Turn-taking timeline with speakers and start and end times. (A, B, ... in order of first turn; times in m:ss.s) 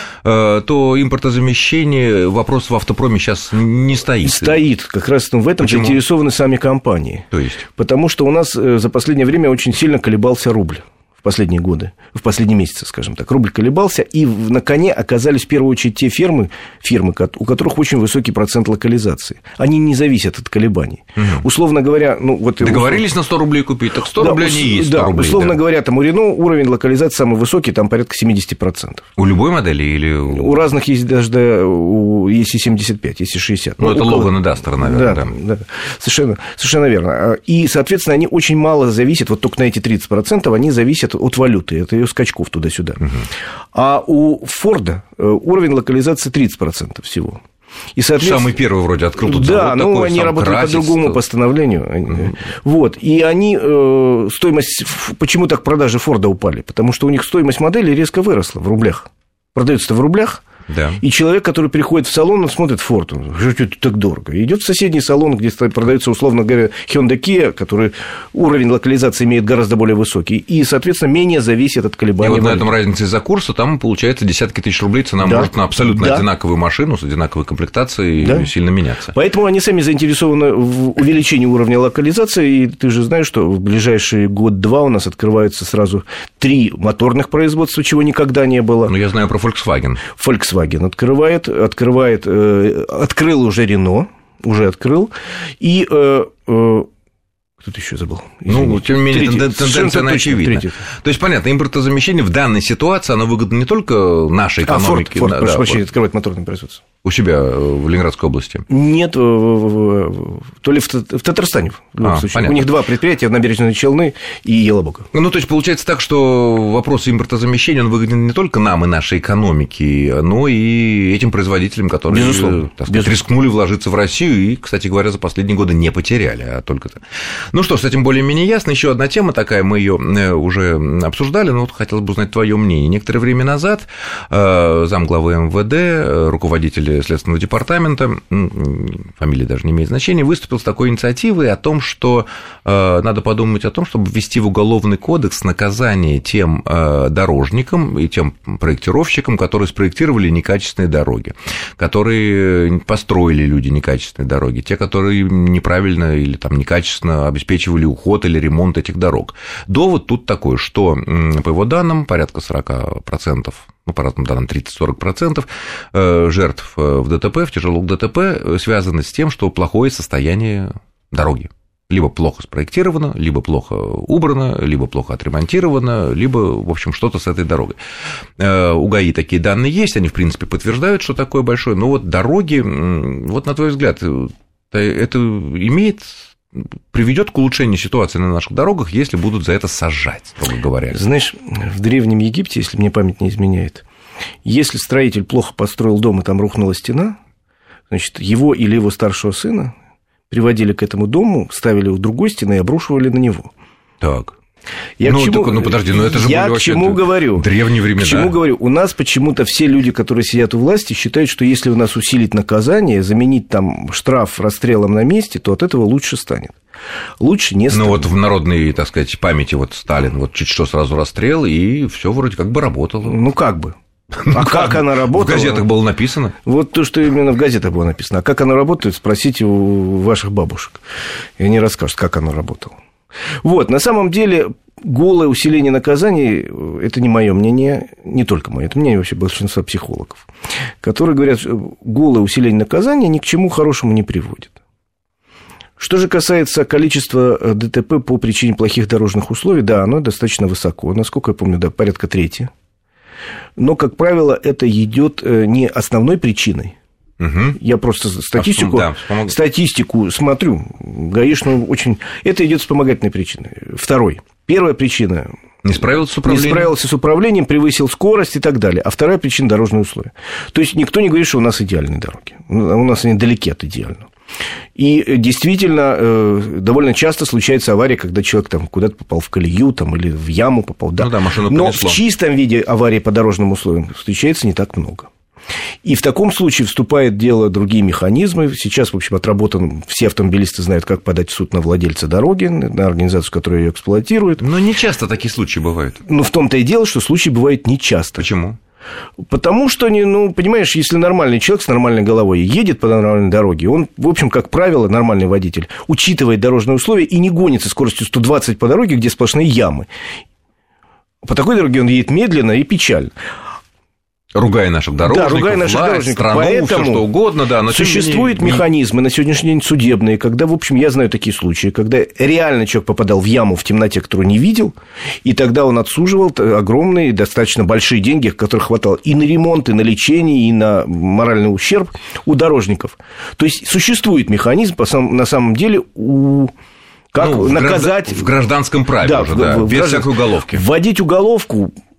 0:00.2-0:04.6 A
0:04.2-0:23.0 B
0:05.6-0:06.0 A
0:07.3-0:07.6 A
0:21.2-0:21.4 A
0:22.6-0:25.6 A
0:24.2-0:29.0 B
0:29.2-0:30.6 A
0:30.3-0:43.0 B
0:33.8-0:35.3 A
0:43.7-0:47.4 B
0:48.0-0:48.6 B
0:48.2-0:51.2 A
0:49.2-1:00.4 B
1:00.7-1:01.0 A
1:01.0-1:12.7 B
1:12.2-1:19.1 A
1:15.2-1:16.2 B
1:18.2-1:18.5 B
1:19.1-1:28.9 B
1:28.8-1:30.0 A
1:30.1-1:36.9 B
1:37.6-1:40.8 B
1:38.5-1:45.8 A
1:44.6-1:46.8 B
1:47.0-1:48.6 A
1:48.7-1:55.1 B
1:52.0-1:52.7 A
1:55.1-2:07.0 A
2:02.1-2:03.2 B
2:07.5-2:57.8 A
2:58.4-3:11.0 A
3:10.9-3:13.8 B
3:14.4-3:17.2 B
3:17.9-3:19.7 B
3:20.3-3:23.5 B
3:24.0-3:24.3 A
3:25.0-3:36.6 B
3:25.0-3:28.4 A
3:37.2-3:38.1 B
3:37.7-3:43.2 A
3:43.0-3:43.8 B
3:44.2-3:46.3 A
3:44.3-3:45.7 B
3:46.4-3:50.8 B
3:51.4-3:52.8 B
3:53.4-4:00.2 B
4:00.8-4:04.6 B
4:05.8-4:12.5 B
4:13.6-4:16.7 B
4:17.2-4:17.6 A
4:17.5-4:25.3 B
4:18.4-4:19.3 A
4:25.6-4:26.7 A
4:26.2-4:34.1 B
4:34.8-4:45.1 B
4:41.0-4:42.0 A
4:45.8-4:54.4 B
4:54.4-4:56.0 A
4:56.0-4:58.3 B
4:58.2-4:58.6 A
4:59.3-5:09.9 B
5:11.2-5:13.1 B
5:14.3-5:18.6 A
5:15.0-5:17.1 B
5:17.6-5:36.5 B
5:37.1-5:38.3 B
5:37.2-5:40.6 A
5:39.0-5:41.7 B